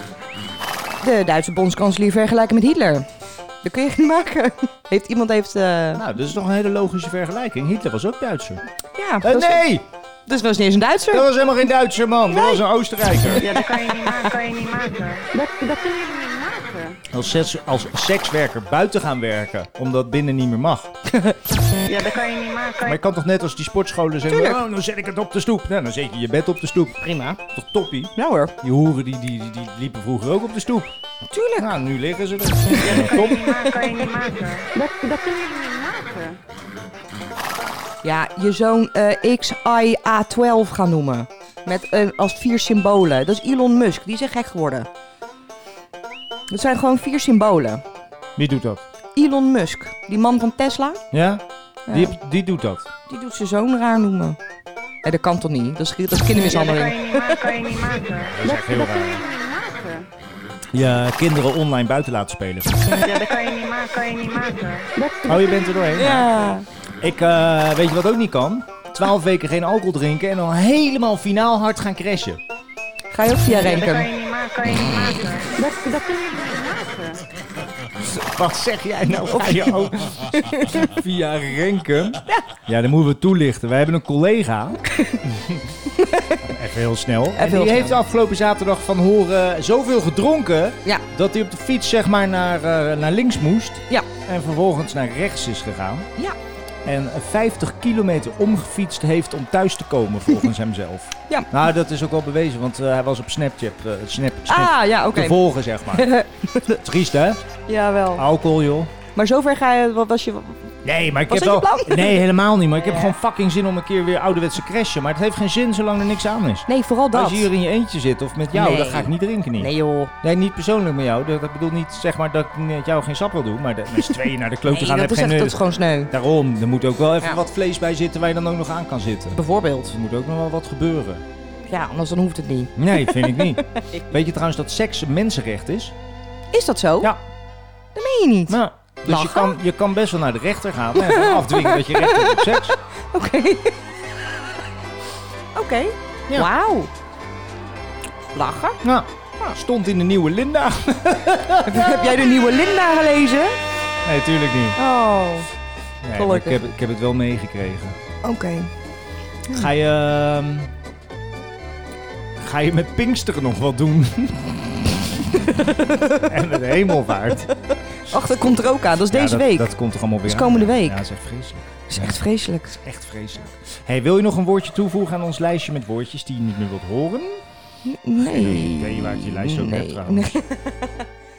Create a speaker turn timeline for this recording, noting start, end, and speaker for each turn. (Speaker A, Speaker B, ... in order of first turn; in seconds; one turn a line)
Speaker A: 1.0-3.1
Speaker A: 3.6-6.0
Speaker B: 6.0-8.6
Speaker A: 9.0-9.7
Speaker B: 9.2-9.9
Speaker A: 10.3-11.3
Speaker B: 11.1-13.5
Speaker A: 12.3-12.6
Speaker C: 13.4-17.0
Speaker B: 17.1-20.9
Speaker C: 21.8-23.0
Speaker B: 22.8-30.9
Speaker A: 24.3-24.6
Speaker A: 27.0-27.4
Speaker A: 28.2-28.5
Speaker A: 31.3-31.7
Speaker B: 31.6-33.7
Speaker A: 32.7-34.1
Speaker C: 32.8-36.4
Speaker A: 38.0-44.9
Speaker A: 46.5-47.8
Speaker B: 48.4-48.8
Speaker A: 49.2-51.0
Speaker B: 51.1-52.9
Speaker A: 51.9-52.2
Speaker A: 53.1-54.4
Speaker A: 55.0-57.5
Speaker C: 56.4-60.1
Speaker B: 58.3-59.2
Speaker B: 60.7-63.0
Speaker C: 63.0-65.7
Speaker B: 65.3-66.3
Speaker A: 66.0-66.7
Speaker B: 67.0-72.4
Speaker A: 73.1-74.1
Speaker C: 73.5-77.2
Speaker B: 78.0-85.6
Speaker A: 79.1-79.8
Speaker A: 80.3-80.9
Speaker A: 84.9-85.2
Speaker A: 86.0-86.5
Speaker B: 86.4-96.1
Speaker A: 87.4-88.0
Speaker B: 96.8-106.1
Speaker A: 104.5-105.4
Speaker A: 105.9-106.8
Speaker B: 106.8-107.4
Speaker A: 107.7-108.3
Speaker B: 108.2-108.9
Speaker A: 109.2-113.1
Speaker B: 110.8-129.4
Speaker A: 116.7-117.5
Speaker A: 118.5-120.1
Speaker A: 124.7-126.1
Speaker A: 129.3-130.0
Speaker B: 129.9-131.2
Speaker A: 131.7-133.6
Speaker B: 132.8-135.9
Speaker A: 136.5-137.1
Speaker A: 137.9-139.5
Speaker B: 138.5-142.8
Speaker A: 140.9-143.8
Speaker A: 145.6-146.9
Speaker A: 148.3-148.8
Speaker B: 148.8-152.2
Speaker A: 151.6-153.6
Speaker B: 154.0-154.8
Speaker A: 154.8-155.5
Speaker B: 156.0-158.0
Speaker A: 156.2-156.6
Speaker A: 158.2-158.7
Speaker B: 159.5-160.7
Speaker B: 162.4-165.5
Speaker A: 165.5-166.2
Speaker B: 166.2-167.6
Speaker A: 168.1-169.7
Speaker B: 169.1-177.4
Speaker A: 170.3-171.0
Speaker A: 171.9-172.8
Speaker A: 177.8-180.9
Speaker B: 178.2-180.3